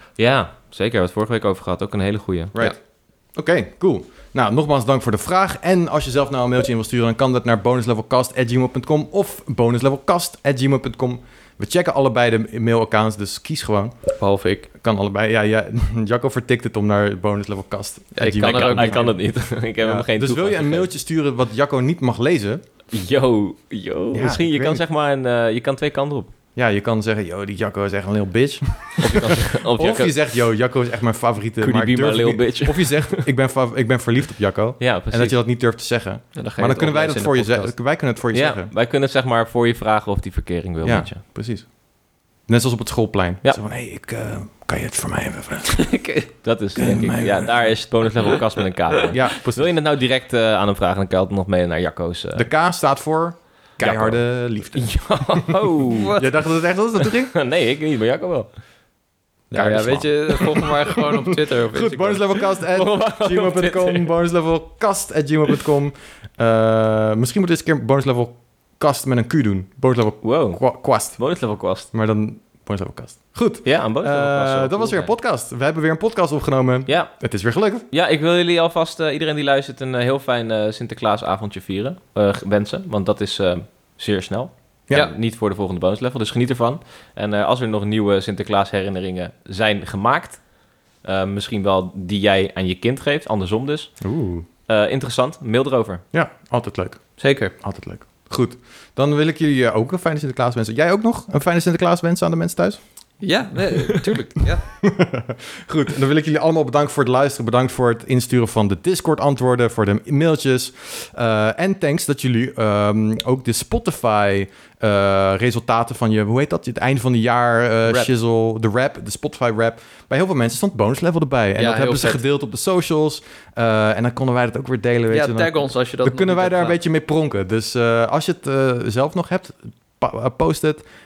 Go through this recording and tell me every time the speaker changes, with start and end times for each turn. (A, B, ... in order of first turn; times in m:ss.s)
0:00.2-0:02.5 A
0:02.5-0:14.0 B
0:14.2-0:14.7 C
0:14.8-0:22.6 B
0:18.2-0:19.1 C
0:18.4-0:20.9 A
0:22.9-0:26.3 A
0:24.1-0:24.8 B
0:26.6-0:38.7 B
0:29.0-0:30.1 A
0:31.6-0:33.3 A
0:34.8-0:35.4 A
0:36.4-0:37.7 C
0:38.3-0:41.2 A
0:40.8-0:41.7 B
0:42.5-0:45.9 B
0:45.7-0:46.3 C
0:46.4-0:52.5 A
0:46.8-0:47.6 B
0:49.1-0:49.8 B
0:52.4-0:55.6 B
0:53.8-0:56.2 A
0:56.0-0:56.2 C
0:56.2-0:57.4 B
0:57.0-0:58.6 A
0:59.5-1:02.3 C
0:59.6-1:00.7 A
0:59.6-1:00.0 B
1:01.7-1:11.2 B
1:02.4-1:04.1 A
1:10.2-1:11.9 A
1:11.9-1:17.9 B
1:13.6-1:15.1 A
1:16.9-1:17.3 A
1:17.9-1:30.5 A
1:31.0-1:34.0 A
1:34.0-1:34.5 B
1:34.7-1:36.0 A
1:36.1-1:42.8 B
1:37.2-1:37.5 C
1:43.2-1:44.6 C
1:44.8-2:10.8 B
2:01.6-2:02.2 C
2:05.1-2:06.8 C